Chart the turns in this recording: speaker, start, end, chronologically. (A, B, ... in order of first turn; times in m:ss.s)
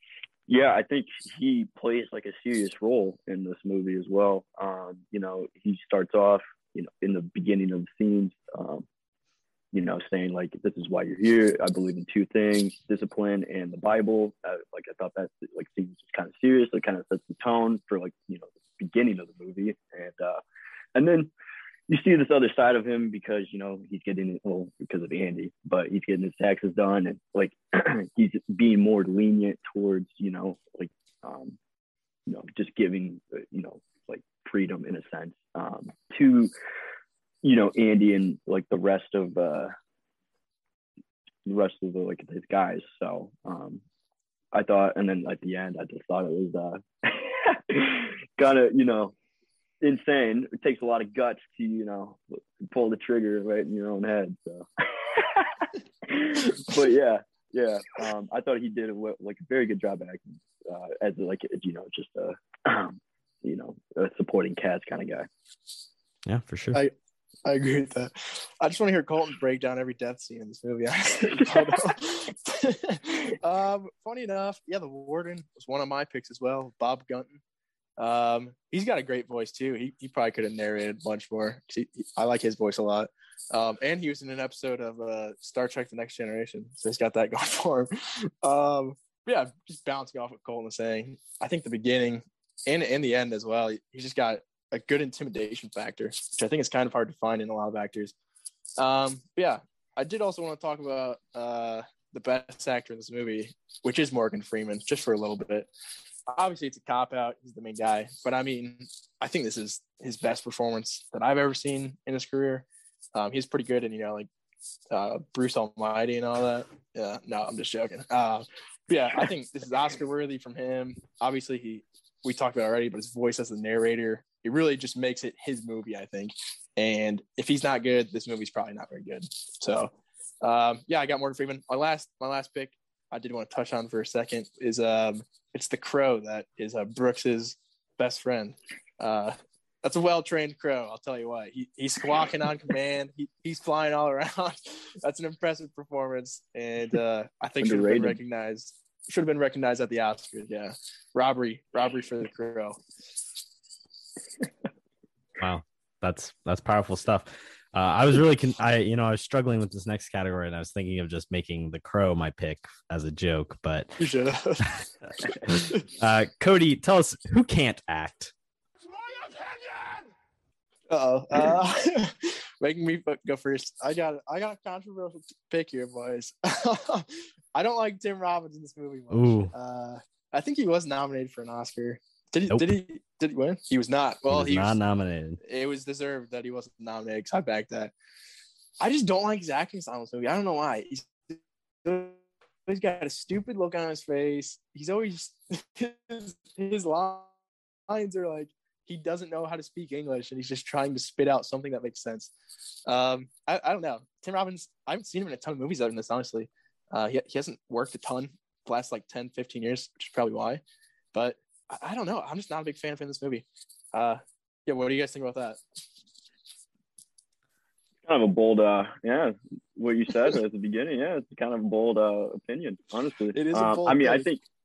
0:00.5-0:08.8 A
0:09.7-0:20.4 A
0:20.9-0:21.3 A
0:21.9-0:31.6 A
0:32.3-0:36.5 A
0:37.4-0:39.7 A
0:41.4-0:43.8 A
0:44.5-0:49.1 A
0:49.8-1:05.3 A
1:06.3-1:06.8 B
1:07.4-1:17.4 C
1:18.0-1:38.1 C
1:38.8-1:45.7 C
1:46.3-1:54.3 C
1:54.9-2:32.8 C
2:27.6-2:28.2 A
2:35.4-2:44.0 B
2:44.0-2:44.7 C
2:45.8-2:48.3 B
2:50.9-3:04.7 C
2:59.1-2:59.5 B
3:04.3-3:05.4 B
3:05.4-3:07.9 C
3:08.8-3:17.3 C
3:17.9-3:22.3 C
3:22.9-3:30.6 C
3:31.1-3:35.6 C
3:38.0-3:44.4 A
3:43.3-3:44.3 C